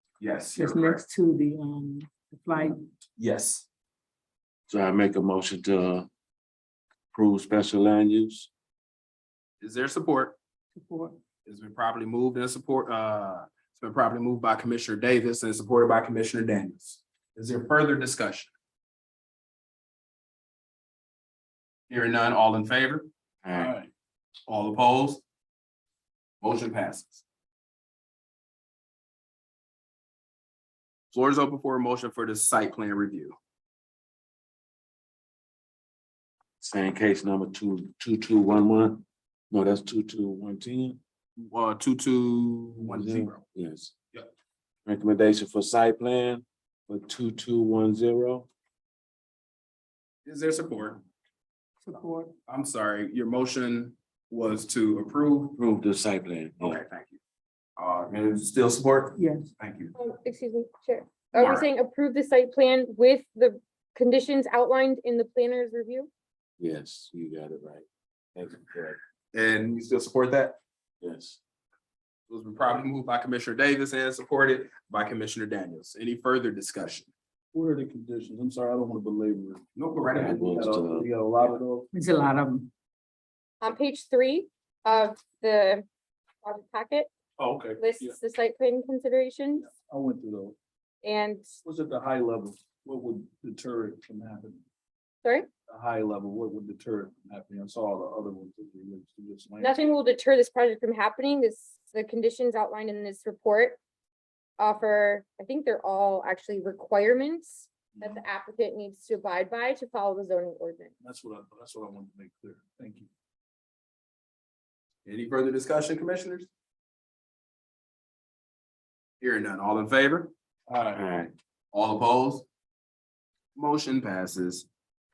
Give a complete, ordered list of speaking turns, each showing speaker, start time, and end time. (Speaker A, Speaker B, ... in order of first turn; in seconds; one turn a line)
Speaker A: 0.2-1.0
Speaker B: 0.5-2.8
Speaker A: 3.2-3.7
Speaker C: 4.7-6.1
Speaker C: 7.1-8.5
Speaker A: 9.6-10.4
Speaker B: 10.7-11.2
Speaker A: 11.5-18.5
Speaker A: 21.9-23.1
Speaker C: 23.4-23.8
Speaker D: 23.5-23.9
Speaker A: 24.5-25.2
Speaker A: 26.4-27.2
Speaker A: 31.1-33.4
Speaker C: 36.6-41.0
Speaker A: 41.4-43.5
Speaker C: 42.9-43.9
Speaker C: 44.9-48.5
Speaker A: 50.2-51.0
Speaker B: 51.8-52.3
Speaker A: 52.5-55.6
Speaker C: 55.5-56.8
Speaker A: 56.6-57.2
Speaker A: 57.8-59.9
Speaker B: 59.2-59.5
Speaker E: 60.0-66.1
Speaker A: 61.3-61.7
Speaker C: 66.6-69.0
Speaker A: 69.3-70.6
Speaker C: 71.0-71.4
Speaker A: 72.3-77.1
Speaker D: 77.5-81.9
Speaker A: 79.8-80.4
Speaker C: 80.1-81.1
Speaker B: 81.9-82.7
Speaker E: 83.6-85.8
Speaker E: 86.4-87.1
Speaker D: 87.4-88.2
Speaker E: 87.8-89.7
Speaker D: 89.6-90.5
Speaker E: 91.0-91.5
Speaker D: 91.6-94.6
Speaker D: 95.7-99.9
Speaker E: 99.6-103.8
Speaker E: 104.6-110.9
Speaker D: 111.0-113.1
Speaker A: 115.1-116.5
Speaker A: 119.2-120.3
Speaker D: 120.7-121.0
Speaker C: 120.9-121.3
Speaker A: 121.7-122.5
Speaker A: 123.6-124.7